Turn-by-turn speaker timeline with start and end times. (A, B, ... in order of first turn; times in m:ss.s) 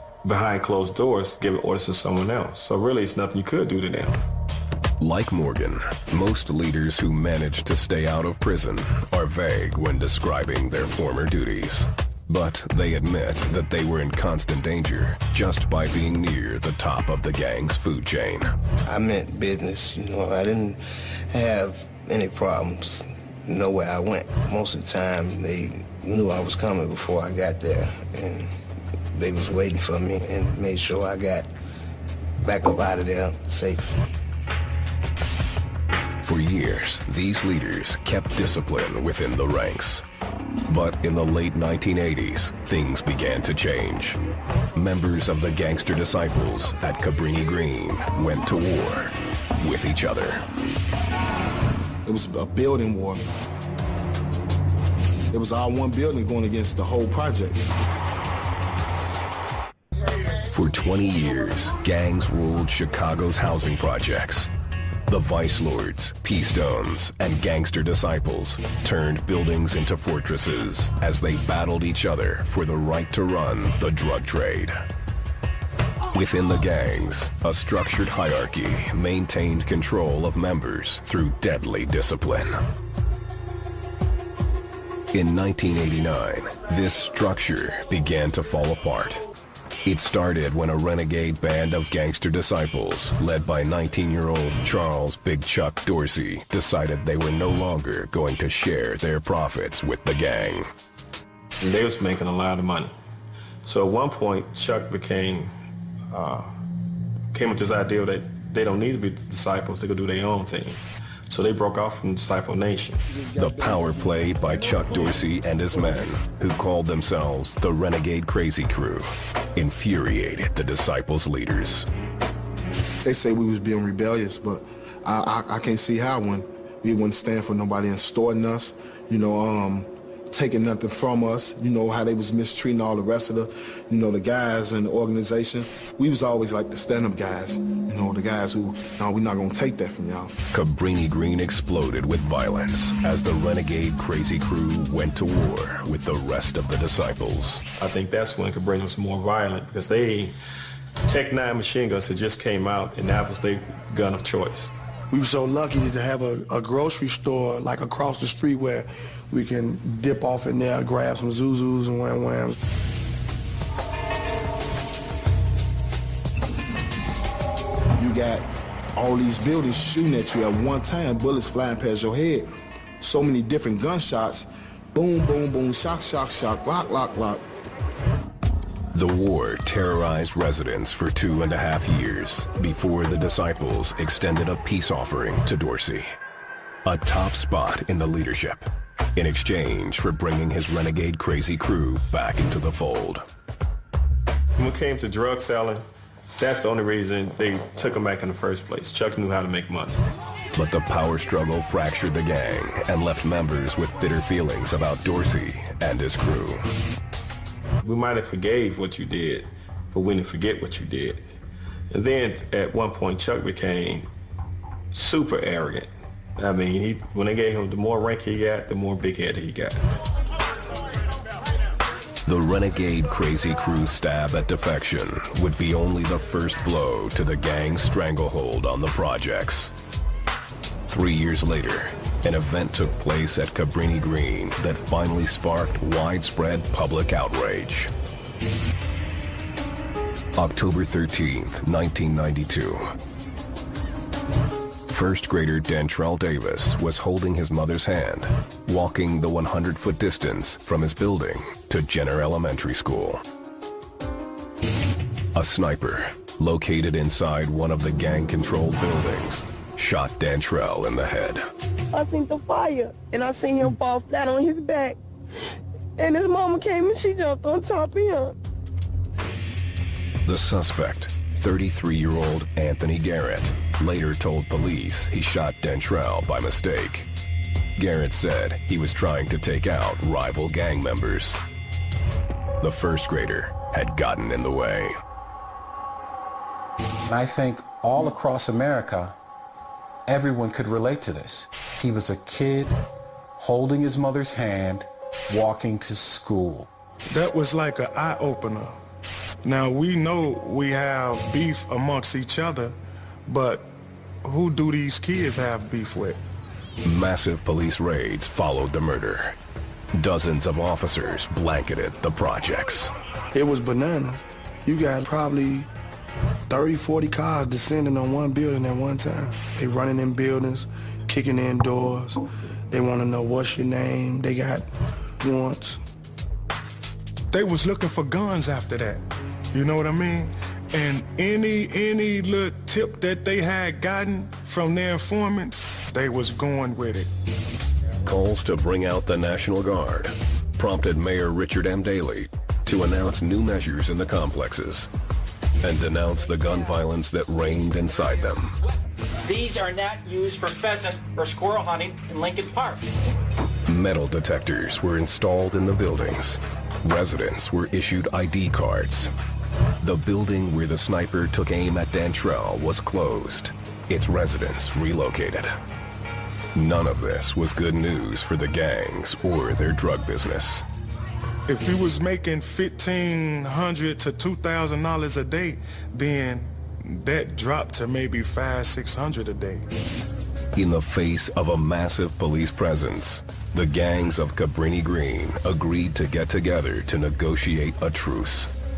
0:00.2-0:04.2 A
0:05.0-0:18.5 B
0:18.9-0:28.5 C
0:29.1-0:31.5 C
0:32.4-0:34.0 C
0:36.2-0:40.0 B
0:40.7-0:44.2 B
0:44.8-0:50.4 B
0:52.1-0:53.2 D
0:55.3-0:57.7 D
1:00.5-1:04.5 B
1:05.1-1:14.8 B
1:16.1-1:22.6 B
1:25.1-1:29.2 B
1:29.8-1:40.7 B
1:41.6-1:42.9 A
1:43.6-1:45.5 A
1:46.1-1:46.5 A
1:47.3-1:53.0 A
1:53.3-2:01.9 B
2:03.0-2:20.4 D
2:20.5-2:27.6 B
2:27.8-2:30.3 A
2:31.1-2:34.7 A
2:35.1-2:42.6 E
2:48.0-2:52.5 D
2:53.0-2:57.4 D
2:58.9-3:06.1 B
3:06.8-3:13.2 B
3:14.6-3:15.8 A
3:16.4-3:20.0 A
3:20.6-3:26.6 B
3:27.8-3:31.2 A
3:31.9-3:34.1 A
3:34.9-3:39.8 A
3:42.3-3:49.7 B
3:50.9-3:57.9 B
4:00.4-4:02.9 B
4:04.9-4:13.2 B
4:15.4-4:21.4 B
4:21.9-4:25.0 F
4:26.0-4:28.4 F
4:30.3-4:37.1 B
4:37.8-4:41.4 B
4:42.6-4:45.0 B
4:47.1-4:49.2 G
4:50.1-4:52.8 G
4:53.4-4:56.7 G
4:57.1-4:58.8 H
4:59.4-5:02.8 H
5:03.3-5:03.7 H
5:04.2-5:06.2 H
5:06.8-5:09.4 B
5:10.0-5:12.9 B
5:13.3-5:15.7 E
5:16.5-5:24.7 E
5:25.2-5:25.8 E
5:27.3-5:37.1 H
5:38.0-5:44.9 B
5:45.6-5:48.5 B
5:49.2-5:52.8 I
5:53.7-5:59.1 B
5:59.8-6:05.5 B
6:06.6-6:10.6 B
6:11.5-6:19.7 H
6:20.6-6:28.5 B